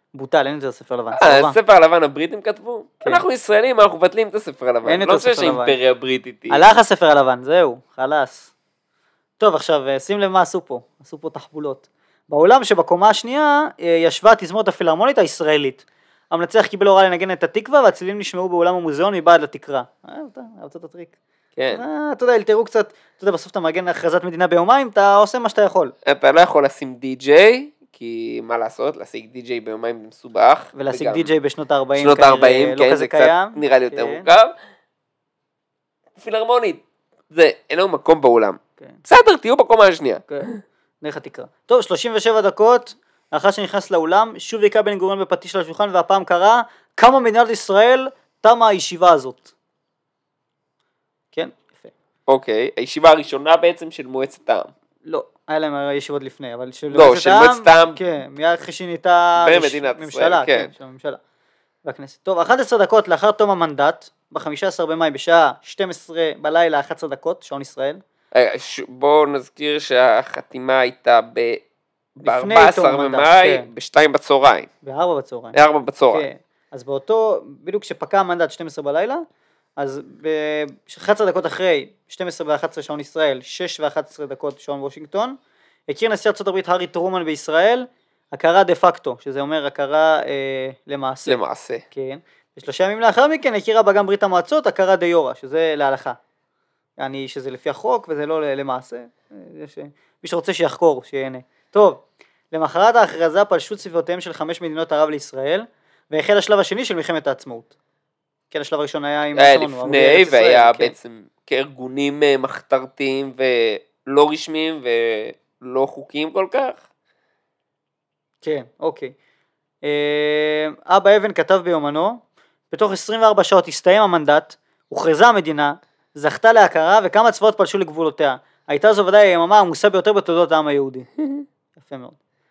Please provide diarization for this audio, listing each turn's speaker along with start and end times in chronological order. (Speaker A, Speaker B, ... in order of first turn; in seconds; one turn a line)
Speaker A: 0.1-1.6
Speaker B: 1.1-6.6
Speaker A: 4.8-5.8
Speaker A: 6.5-8.5
Speaker A: 9.4-21.1
Speaker B: 21.6-21.8
Speaker A: 21.7-25.9
Speaker B: 26.0-31.3
Speaker A: 30.7-34.3
Speaker B: 32.0-34.5
Speaker B: 36.1-40.5
Speaker A: 41.0-49.5
Speaker A: 51.3-51.9
Speaker B: 52.3-54.7
Speaker A: 55.0-61.2
Speaker B: 56.9-58.0
Speaker B: 59.4-60.7
Speaker A: 61.8-68.0
Speaker B: 68.3-71.6
Speaker B: 72.2-74.7
Speaker A: 72.2-73.7
Speaker A: 74.8-75.6
Speaker B: 75.5-76.2
Speaker A: 76.1-79.2
Speaker A: 79.8-85.4
Speaker A: 85.9-91.4
Speaker B: 91.3-91.8
Speaker A: 91.9-96.2
Speaker A: 97.0-107.7
Speaker A: 108.5-110.9
Speaker B: 109.3-116.8
Speaker A: 118.4-119.1
Speaker A: 119.8-131.1
Speaker A: 131.7-132.2